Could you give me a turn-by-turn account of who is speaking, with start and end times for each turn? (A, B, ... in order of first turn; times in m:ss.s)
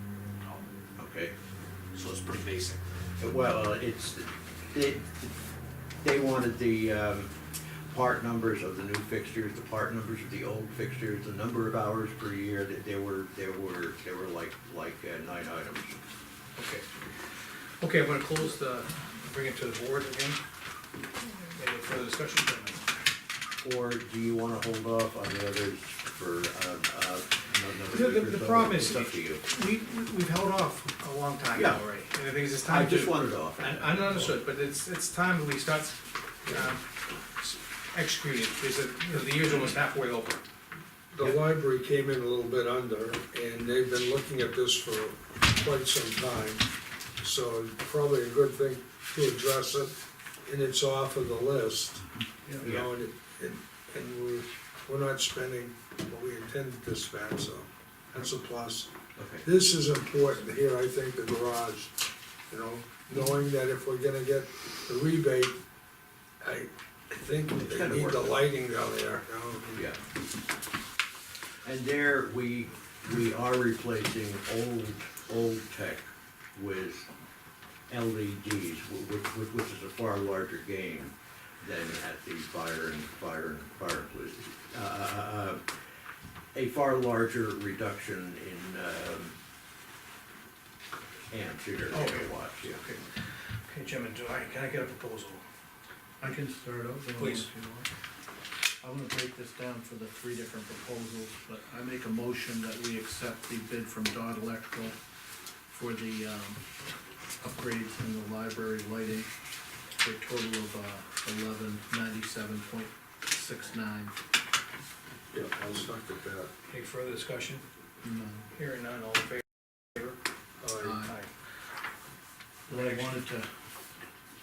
0:01.0-0:01.3 A
0:01.9-0:02.8 B
0:03.2-0:05.3 A
0:06.0-0:07.3 A
0:07.9-0:16.0 A
0:16.5-0:17.0 B
0:17.8-0:20.4 B
0:21.4-0:23.0 B
0:23.6-0:29.4 A
0:27.9-0:36.8 B
0:31.5-0:31.8 A
0:32.6-0:34.2 A
0:37.4-0:40.4 B
0:41.1-0:46.6 C
0:47.2-0:49.9 C
0:50.4-0:52.0 C
0:52.6-1:01.9 C
0:52.6-0:52.9 A
0:59.2-0:59.4 A
1:02.5-1:05.6 C
1:06.4-1:09.8 C
1:07.6-1:08.4 A
1:09.7-1:10.0 A
1:11.6-1:17.1 A
1:17.9-1:25.7 A
1:26.5-1:29.4 A
1:31.3-1:32.8 A
1:31.9-1:33.0 B
1:33.6-1:35.4 B
1:36.2-1:37.9 D
1:37.2-1:37.5 B
1:38.8-1:45.0 D
1:45.7-1:46.6 D
1:47.4-1:49.3 D
1:50.0-1:54.1 D
1:55.3-1:56.5 C
1:56.7-1:57.6 B
1:58.0-1:58.5 D
1:58.5-2:00.2 B
2:00.6-2:01.0 C
2:00.8-2:01.1 D
2:01.0-2:01.3 B
2:02.7-2:03.5 D